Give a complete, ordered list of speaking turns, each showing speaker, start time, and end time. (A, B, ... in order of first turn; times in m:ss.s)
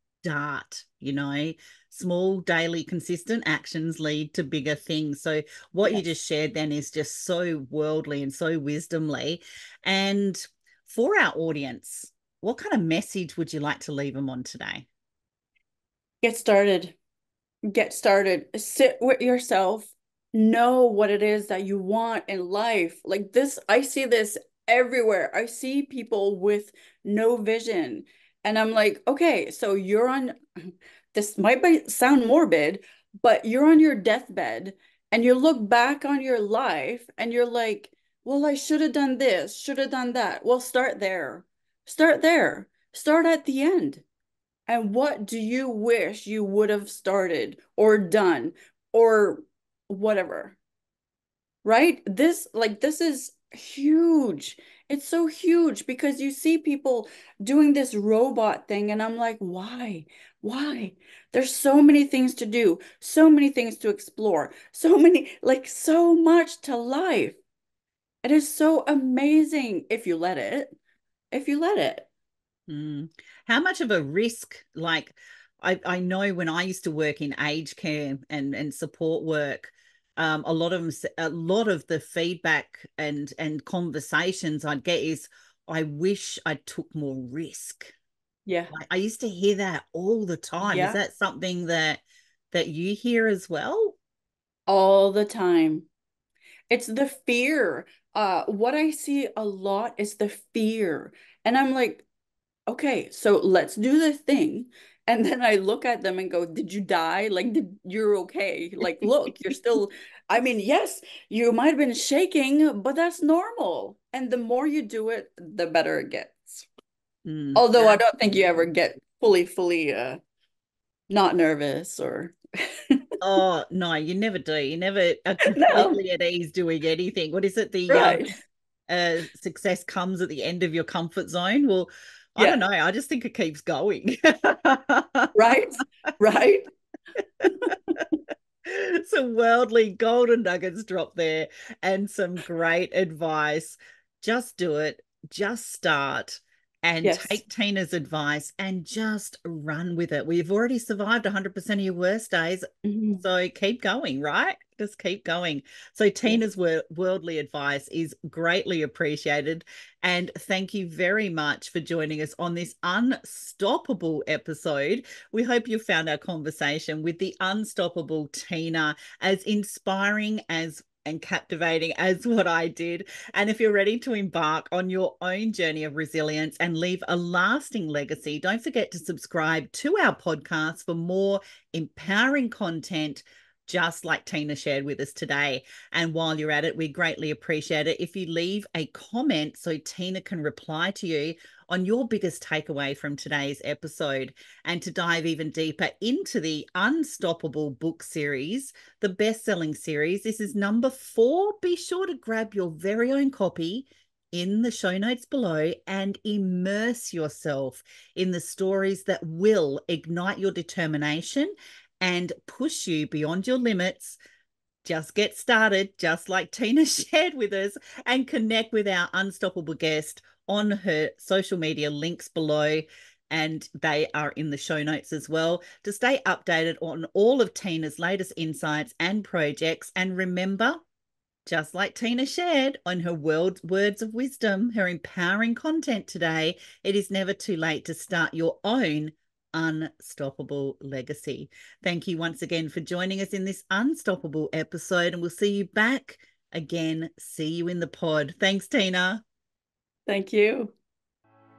0:00.2-0:14.9 A
0:16.2-0:17.0 B
0:17.7-0:30.4 B
0:31.1-0:44.0 B
0:44.7-0:50.6 B
0:51.6-1:07.4 B
1:08.2-1:10.8 B
1:11.3-1:12.1 B
1:12.7-1:27.9 A
1:28.5-1:28.7 B
1:28.7-1:34.0 A
1:30.6-1:31.0 B
1:34.7-1:35.9 B
1:36.7-1:42.1 B
1:42.7-1:56.7 B
1:57.2-1:58.0 A
1:57.6-2:00.2 B
2:01.1-2:03.0 B
2:03.2-2:08.2 A
2:05.4-2:06.0 B
2:07.9-2:08.3 B
2:08.9-2:15.4 A
2:15.4-2:16.7 B
2:17.4-2:17.7 A
2:17.7-2:18.0 B
2:18.6-2:32.6 A
2:27.0-2:27.4 B
2:32.9-2:33.2 B
2:33.2-3:34.2 A
3:34.8-3:50.8 A
3:51.5-4:09.2 A
4:10.1-4:10.7 B